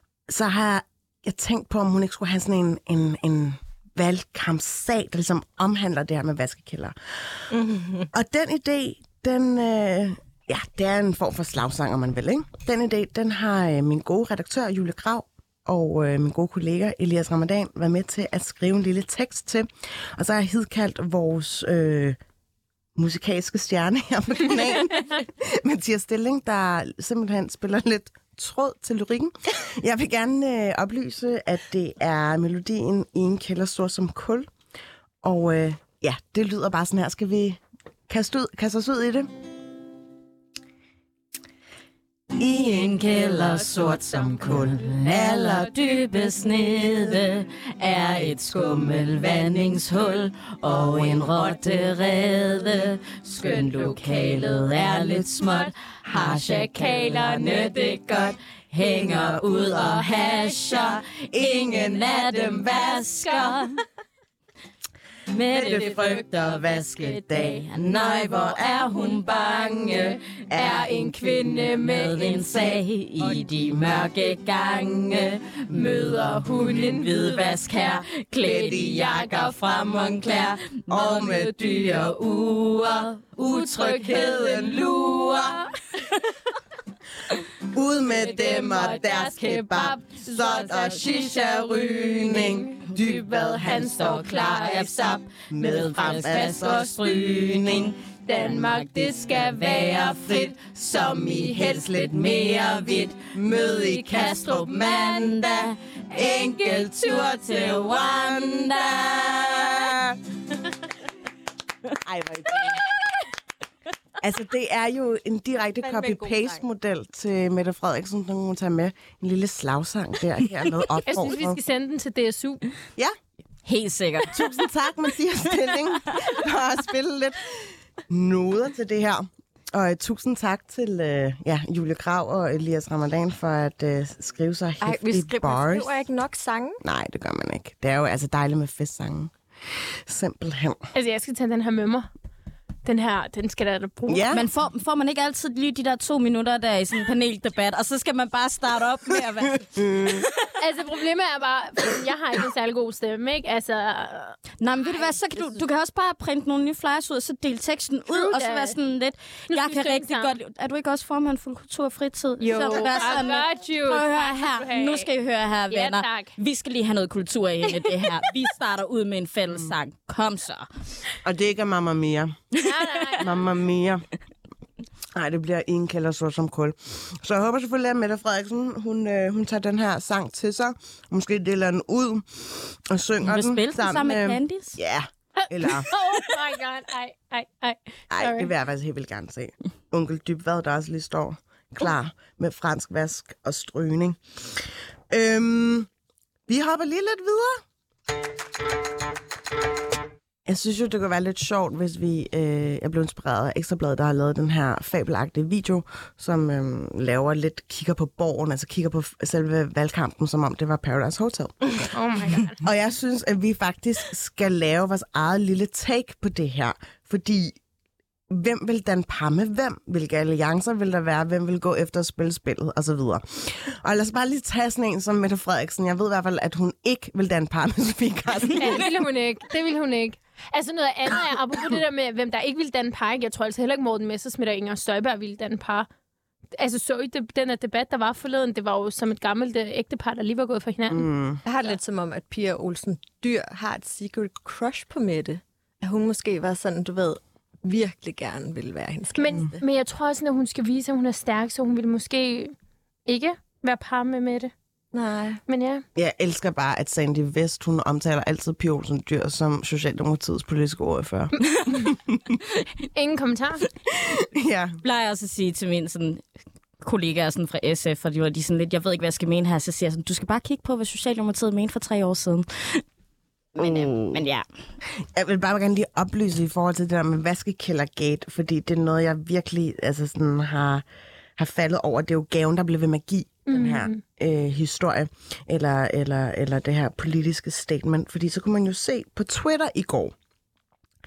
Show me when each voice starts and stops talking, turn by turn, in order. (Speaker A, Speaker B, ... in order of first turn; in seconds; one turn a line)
Speaker A: 0.3-7.5
Speaker B: 7.5-8.1
Speaker A: 8.1-22.2
Speaker A: 22.9-34.5
Speaker A: 35.2-39.3
Speaker C: 42.4-63.8
Speaker A: 42.4-45.7
Speaker A: 50.9-51.3
Speaker A: 54.9-55.3
Speaker A: 56.1-56.4
Speaker D: 56.5-57.9
Speaker A: 58.8-60.1
Speaker A: 61.3-62.9
Speaker D: 62.6-63.5
Speaker C: 65.3-85.5
Speaker A: 65.5-68.9
Speaker A: 70.5-70.8
Speaker D: 70.5-72.5
Speaker D: 75.9-77.3
Speaker A: 78.4-79.0
Speaker D: 78.4-79.6
Speaker A: 80.9-82.0
Speaker D: 83.5-85.7
Speaker A: 83.9-84.8
Speaker A: 87.7-94.2
Speaker D: 88.3-95.2
Speaker C: 92.9-109.9
Speaker A: 95.5-97.9
Speaker D: 96.0-96.9
Speaker D: 98.3-100.2
Speaker A: 100.0-110.2
Speaker D: 101.3-101.8
Speaker D: 104.1-105.2
Speaker D: 106.2-107.3
Speaker A: 112.0-112.8
Speaker A: 114.2-121.6
Speaker B: 115.8-116.6
Speaker D: 121.0-122.6
Speaker C: 123.6-124.5
Speaker A: 124.3-136.0
Speaker B: 134.8-136.8
Speaker A: 136.8-140.9
Speaker D: 140.9-142.1
Speaker D: 142.8-144.2
Speaker A: 144.1-144.4
Speaker C: 144.3-150.5
Speaker A: 149.7-150.3
Speaker D: 150.6-154.4
Speaker C: 154.6-170.7
Speaker D: 158.1-158.8
Speaker D: 159.5-160.3
Speaker D: 162.4-165.1
Speaker D: 165.7-166.3
Speaker A: 171.2-172.5
Speaker C: 172.6-172.9
Speaker D: 172.6-173.4
Speaker A: 173.2-174.0
Speaker A: 175.1-185.9
Speaker C: 183.2-184.8
Speaker D: 185.4-188.5
Speaker A: 188.1-195.9
Speaker A: 196.5-197.6
Speaker A: 200.4-211.9
Speaker D: 211.9-212.6
Speaker A: 212.6-217.6
Speaker A: 218.3-228.8
Speaker D: 228.6-235.9
Speaker D: 236.6-241.1
Speaker A: 240.9-241.4
Speaker B: 241.4-249.6
Speaker D: 249.2-252.5
Speaker D: 253.1-254.5
Speaker B: 254.9-255.4
Speaker D: 255.5-255.8
Speaker A: 255.9-262.3
Speaker D: 262.9-263.6
Speaker A: 263.9-264.8
Speaker C: 264.8-266.2
Speaker C: 266.8-272.8
Speaker C: 273.5-274.4
Speaker A: 273.6-274.2
Speaker A: 275.0-280.8
Speaker A: 281.4-290.1
Speaker D: 283.5-284.0